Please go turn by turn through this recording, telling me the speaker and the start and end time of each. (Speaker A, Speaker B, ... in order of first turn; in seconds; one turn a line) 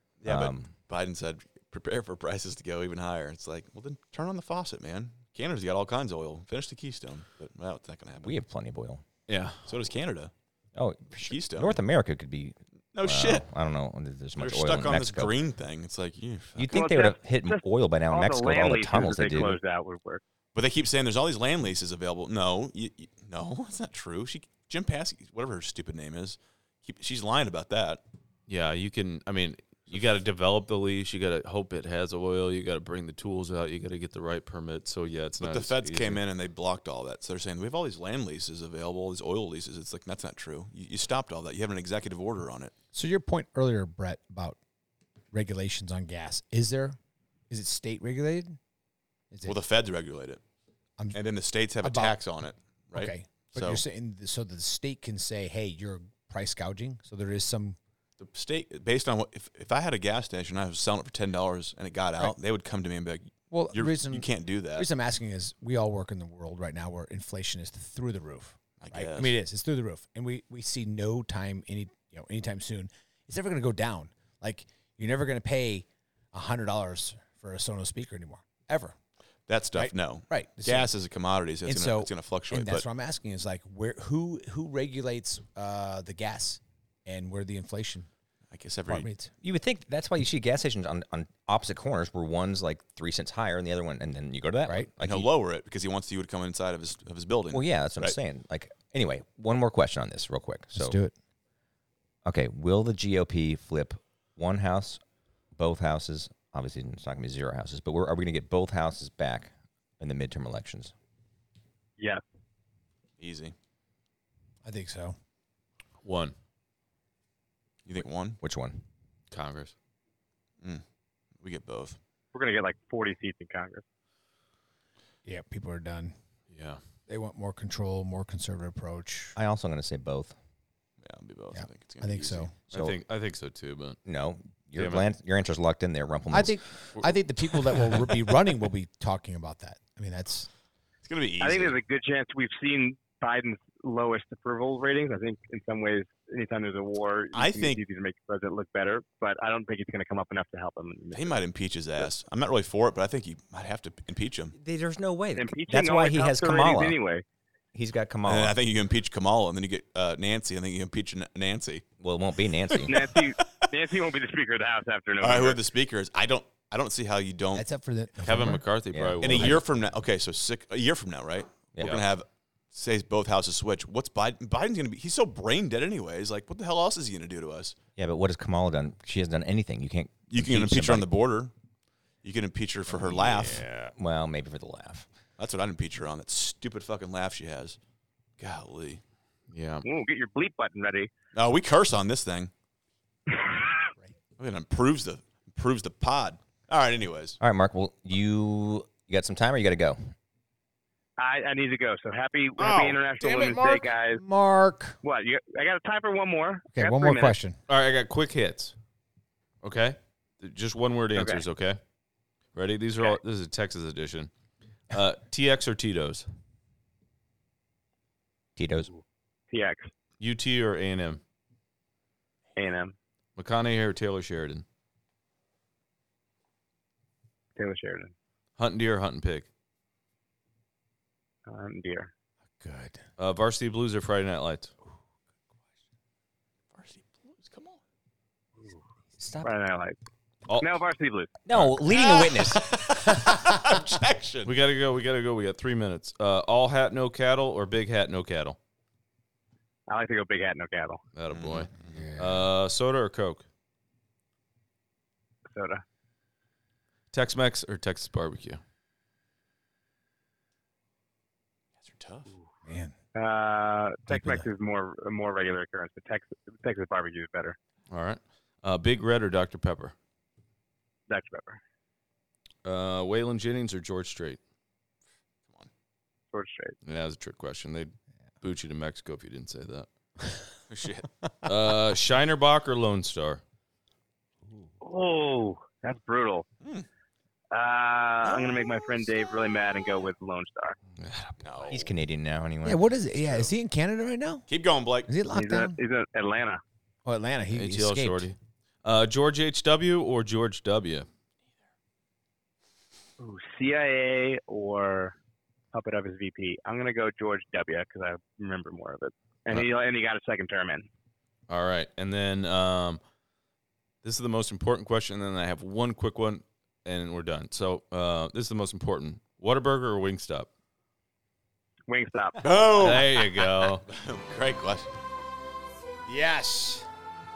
Speaker A: 0.2-8.3
Speaker B: 0.2-0.7
Speaker B: 8.2-9.0
Speaker C: 9.3-9.7
Speaker A: 9.7-10.3
Speaker B: 10.7-15.3
Speaker A: 11.2-11.8
Speaker A: 12.9-13.4
Speaker A: 14.4-16.8
Speaker B: 16.6-19.6
Speaker D: 16.7-20.2
Speaker A: 20.5-28.0
Speaker C: 28.5-36.2
Speaker A: 35.4-42.7
Speaker E: 42.9-44.6
Speaker E: 45.3-47.0
Speaker E: 47.5-48.6
Speaker E: 49.3-49.6
Speaker A: 49.5-50.4
Speaker A: 51.1-53.8
Speaker E: 51.8-52.2
Speaker E: 52.9-57.8
Speaker A: 58.2-64.9
Speaker E: 63.5-79.0
Speaker A: 68.8-69.4
Speaker A: 79.5-82.8
Speaker E: 79.7-80.9
Speaker E: 81.6-88.1
Speaker A: 88.5-89.1
Speaker E: 88.9-89.3
Speaker B: 89.4-95.3
Speaker A: 95.0-98.2
Speaker B: 97.5-101.0
Speaker E: 100.7-101.1
Speaker B: 102.2-105.0
Speaker B: 105.5-110.9
Speaker D: 112.0-112.2
Speaker A: 113.2-113.5
Speaker E: 114.6-115.2
Speaker C: 116.0-116.3
Speaker A: 117.8-118.4
Speaker B: 118.4-118.8
Speaker C: 119.3-119.7
Speaker A: 121.4-122.0
Speaker D: 122.3-123.8
Speaker E: 125.2-126.1
Speaker C: 126.5-126.8
Speaker E: 127.1-129.3
Speaker B: 129.3-130.3
Speaker A: 131.0-132.5
Speaker E: 131.5-132.6
Speaker C: 132.7-134.0
Speaker B: 132.7-133.0
Speaker B: 134.0-136.6
Speaker C: 134.8-135.1
Speaker E: 136.3-140.5
Speaker A: 141.0-141.8
Speaker D: 141.4-151.4
Speaker A: 147.3-147.8
Speaker A: 151.1-154.5
Speaker B: 154.5-157.0
Speaker D: 155.3-157.2
Speaker B: 157.7-158.6
Speaker A: 158.2-161.8
Speaker B: 162.0-163.0
Speaker A: 162.7-163.2
Speaker D: 162.8-165.6
Speaker A: 165.2-167.6
Speaker E: 167.5-168.7
Speaker C: 168.2-169.6
Speaker B: 168.9-169.6
Speaker A: 169.2-177.8
Speaker B: 178.0-181.1
Speaker A: 180.3-181.5
Speaker A: 182.2-183.7
Speaker B: 182.9-185.1
Speaker A: 185.4-187.8
Speaker A: 188.4-189.0
Speaker C: 189.5-189.8
Speaker D: 189.8-191.1
Speaker A: 191.3-192.5
Speaker D: 193.3-193.9
Speaker A: 194.4-197.4
Speaker B: 197.4-200.1
Speaker D: 201.2-204.2
Speaker A: 202.6-203.0
Speaker E: 203.3-205.0
Speaker D: 205.0-207.3
Speaker E: 206.7-207.6
Speaker C: 207.7-208.7
Speaker C: 209.6-211.8
Speaker D: 211.1-211.4
Speaker C: 212.5-214.3
Speaker C: 214.9-216.3
Speaker B: 218.6-218.9
Speaker D: 219.5-219.9
Speaker C: 220.2-221.2
Speaker D: 222.6-222.9
Speaker C: 223.4-224.6
Speaker D: 227.6-228.1
Speaker C: 228.6-229.5
Speaker D: 231.5-232.1
Speaker E: 232.6-233.0
Speaker C: 233.2-234.7
Speaker A: 236.7-237.8
Speaker B: 239.2-239.5
Speaker D: 239.4-240.0
Speaker D: 240.6-241.3
Speaker B: 241.4-242.6
Speaker A: 241.9-244.5
Speaker C: 244.4-248.6
Speaker D: 249.9-251.0
Speaker C: 251.1-253.4
Speaker A: 251.3-252.0
Speaker E: 251.9-252.4
Speaker D: 255.5-255.8
Speaker C: 257.1-258.6
Speaker A: 261.8-262.3
Speaker E: 262.6-262.9
Speaker D: 263.1-267.6
Speaker E: 264.1-264.5
Speaker C: 267.9-269.9
Speaker D: 271.1-271.6
Speaker C: 272.6-274.4
Speaker D: 276.3-276.7
Speaker C: 276.8-279.9
Speaker A: 280.7-281.1
Speaker C: 281.4-283.4
Speaker D: 284.8-286.4
Speaker A: 286.6-286.9
Speaker D: 287.5-290.8
Speaker C: 291.0-291.7
Speaker A: 291.4-291.9
Speaker B: 291.7-292.9
Speaker E: 292.6-294.4
Speaker A: 293.2-293.5
Speaker A: 294.5-295.1
Speaker E: 295.1-295.8
Speaker D: 295.3-296.6
Speaker E: 297.0-298.3
Speaker C: 297.5-301.1
Speaker D: 303.2-305.1
Speaker D: 305.7-310.9
Speaker C: 311.5-313.0
Speaker C: 314.0-320.5
Speaker D: 321.9-322.4
Speaker A: 322.4-324.9
Speaker C: 322.8-323.8
Speaker E: 326.1-326.9